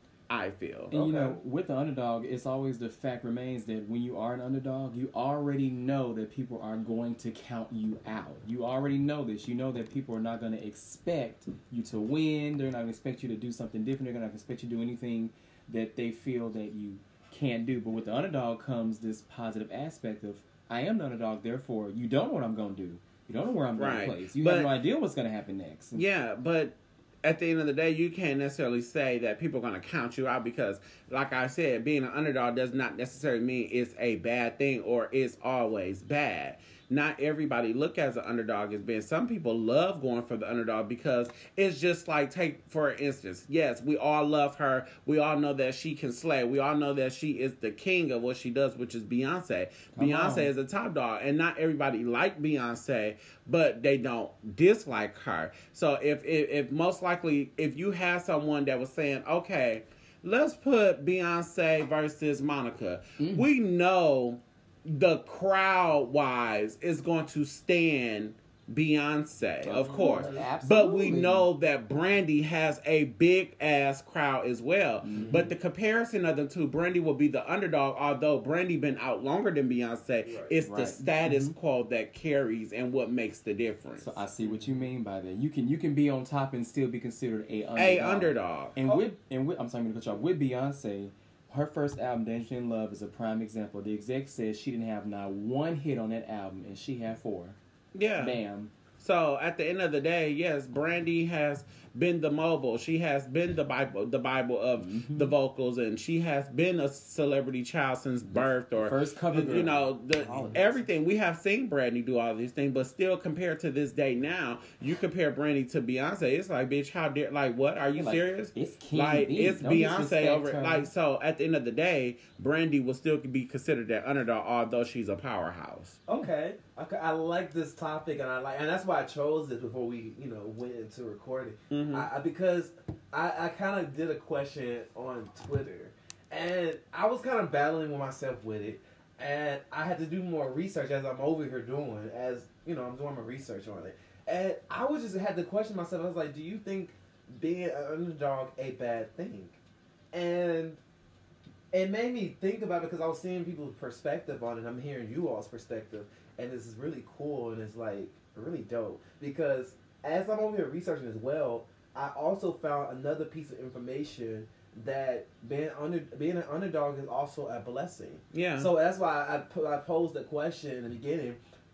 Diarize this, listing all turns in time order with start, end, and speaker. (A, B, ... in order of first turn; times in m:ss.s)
0:00.3-0:00.9 A
0:00.9-0:01.4 B
0:00.9-0:26.0 C
0:23.8-0:24.8 A
0:26.0-1:24.2 A
0:49.9-0:50.5 C
1:03.2-1:03.5 C
1:09.6-1:11.5 C
1:09.7-1:10.5 B
1:15.0-1:15.5 C
1:15.1-1:15.5 B
1:20.2-1:20.6 B
1:20.6-1:21.6 C
1:24.0-1:37.6 C
1:24.4-1:24.9 B
1:27.8-1:28.7 A
1:38.0-1:38.4 A
1:38.2-1:38.7 C
1:39.0-2:06.0 A
1:44.8-1:45.4 C
1:48.4-1:50.8 C
1:50.3-1:50.8 B
1:58.0-2:00.9 C
2:06.1-2:29.6 B
2:11.7-2:12.1 A
2:30.1-2:30.8 B
2:31.7-2:51.4 B
2:48.3-2:48.7 A